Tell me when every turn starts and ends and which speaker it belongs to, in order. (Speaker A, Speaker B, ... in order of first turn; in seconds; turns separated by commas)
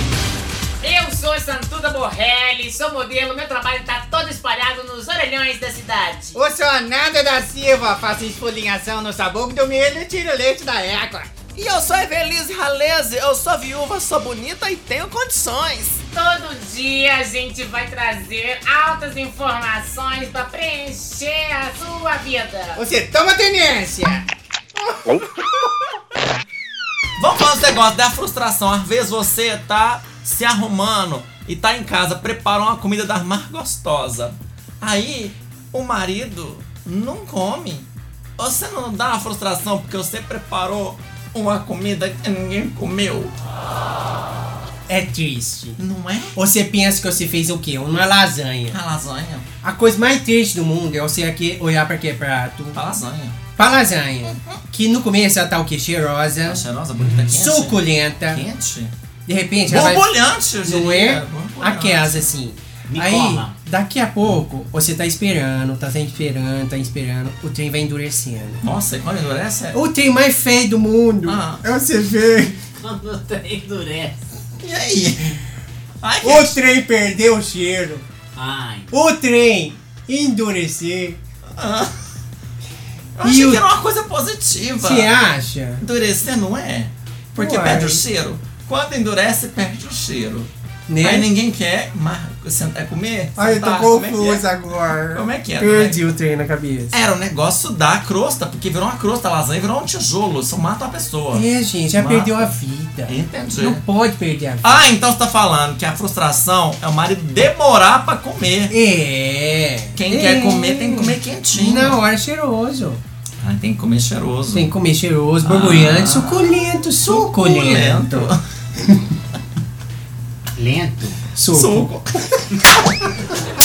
Speaker A: 0.8-6.4, Speaker B: 6.3-11.3, Speaker C: 11.6-16.0, Speaker A: 16.1-22.9, Speaker B: 22.8-24.3, Speaker C: 27.2-43.3, Speaker D: 44.9-45.8, Speaker C: 45.8-46.4, Speaker D: 46.4-48.8, Speaker C: 48.7-49.5, Speaker D: 49.6-52.8, Speaker C: 52.8-53.5, Speaker D: 53.6-56.6, Speaker C: 54.2-54.6, Speaker C: 56.5-58.9, Speaker E: 57.0-57.3, Speaker D: 57.3-58.4, Speaker D: 59.3-68.6, Speaker C: 59.7-62.3, Speaker E: 62.9-63.6, Speaker C: 68.6-69.8, Speaker D: 69.7-72.6, Speaker C: 71.2-71.6, Speaker E: 72.8-74.2, Speaker C: 74.6-75.4, Speaker C: 76.0-76.6, Speaker D: 76.2-78.1, Speaker E: 78.4-79.0, Speaker D: 78.9-81.2, Speaker C: 81.5-81.9, Speaker C: 83.2-85.1, Speaker D: 83.2-83.7, Speaker D: 84.8-85.8, Speaker C: 85.8-94.5, Speaker D: 87.3-88.0, Speaker D: 90.9-91.3, Speaker D: 93.4-97.0, Speaker B: 93.4-94.1, Speaker C: 95.1-96.0, Speaker C: 96.9-102.5, Speaker D: 101.3-104.8, Speaker C: 103.1-103.8, Speaker C: 104.6-108.8, Speaker D: 108.7-113.0, Speaker C: 109.9-112.0, Speaker C: 113.4-114.7, Speaker D: 114.5-118.3, Speaker C: 115.4-116.5, Speaker C: 117.0-118.4, Speaker E: 120.6-121.2, Speaker D: 121.3-122.0, Speaker C: 121.5-122.4